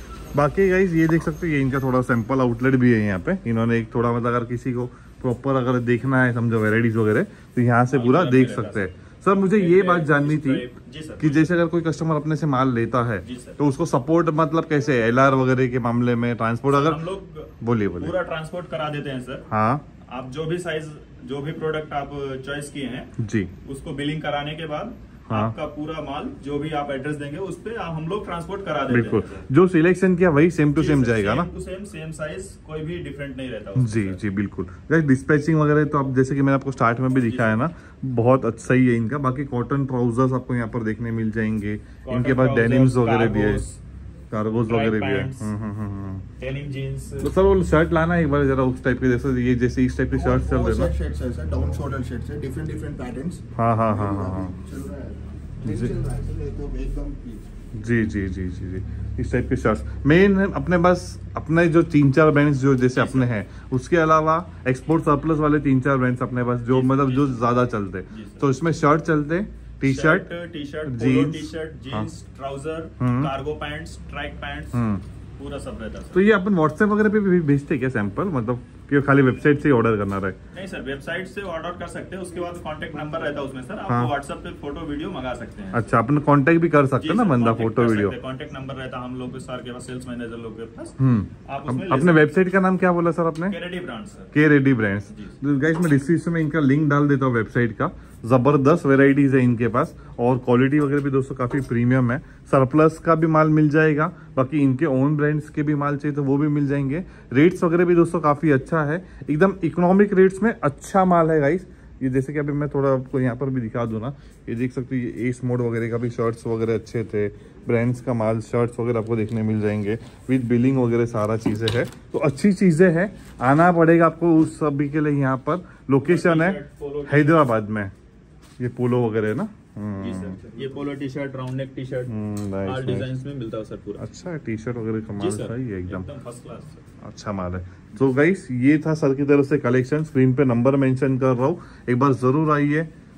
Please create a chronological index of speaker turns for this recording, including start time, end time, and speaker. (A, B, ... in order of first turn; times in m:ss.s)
0:00.3-0:10.6 A
0:07.9-0:08.9 B
0:09.5-0:11.5 B
0:11.2-0:17.0 A
0:13.2-0:13.6 B
0:16.7-0:19.4 B
0:17.6-0:18.2 A
0:19.5-0:19.8 A
0:20.1-0:23.1 B
0:23.2-0:23.5 A
0:23.6-0:29.5 B
0:25.3-0:25.5 A
0:28.9-0:31.5 A
0:30.7-0:34.2 B
0:33.8-0:43.6 A
0:37.1-0:37.7 B
0:42.0-0:43.8 B
0:44.3-0:46.2 A
0:44.6-0:45.5 B
0:46.4-0:47.3 B
0:47.2-0:50.9 A
0:50.1-0:57.5 C
0:53.6-0:54.6 A
0:55.6-0:55.9 A
0:57.8-1:10.3 A
1:02.9-1:03.3 B
1:06.7-1:07.5 B
1:08.1-1:08.5 B
1:09.8-1:14.8 B
1:10.8-1:12.1 A
1:13.0-1:13.3 A
1:14.7-1:15.0 A
1:15.4-1:16.2 B
1:16.1-1:20.4 A
1:20.5-1:25.9 B
1:23.9-1:24.1 A
1:25.7-1:28.2 A
1:27.0-1:32.5 B
1:31.0-1:33.6 A
1:33.5-1:34.3 B
1:34.3-2:07.9 A
1:35.1-1:35.4 B
2:06.0-2:07.5 B
2:08.6-2:10.4 A
2:10.0-2:14.0 B
2:10.4-2:10.8 C
2:12.1-2:13.1 A
2:14.0-2:16.0 A
2:15.2-2:16.8 B
2:17.0-2:22.9 A